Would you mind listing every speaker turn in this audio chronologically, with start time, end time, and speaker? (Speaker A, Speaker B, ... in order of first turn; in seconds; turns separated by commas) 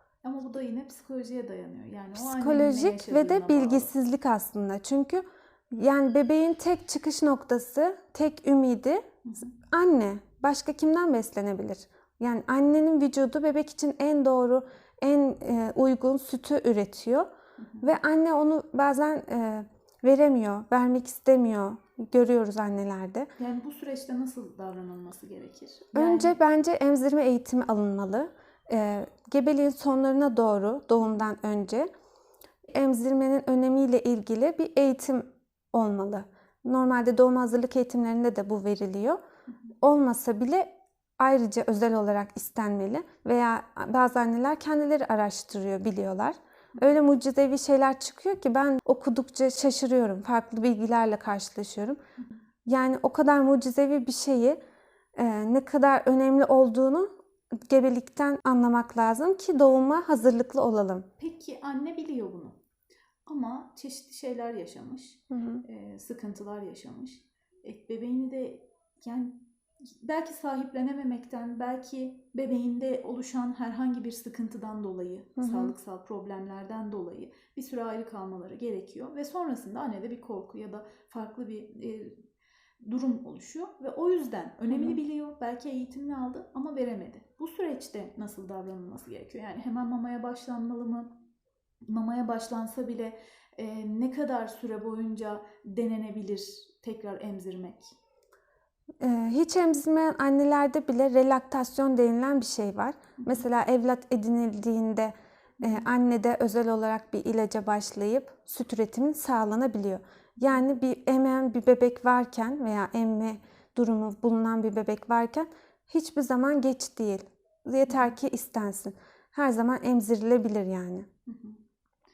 Speaker A: 0.2-3.9, Speaker B: 2.1-9.0, Speaker A: 9.2-9.5, Speaker B: 9.7-17.3, Speaker A: 17.6-17.9, Speaker B: 17.8-23.3, Speaker A: 23.4-26.4, Speaker B: 25.9-31.9, Speaker B: 32.7-39.2, Speaker B: 39.8-52.0, Speaker B: 52.7-54.6, Speaker B: 55.2-57.1, Speaker B: 57.7-61.1, Speaker A: 61.2-62.6, Speaker A: 63.3-69.4, Speaker B: 65.3-65.6, Speaker A: 70.0-82.2, Speaker B: 75.4-75.7, Speaker A: 82.8-91.1, Speaker B: 84.7-85.0, Speaker A: 91.9-97.9, Speaker B: 99.0-121.1, Speaker A: 105.6-105.9, Speaker A: 117.9-118.1, Speaker A: 121.3-121.6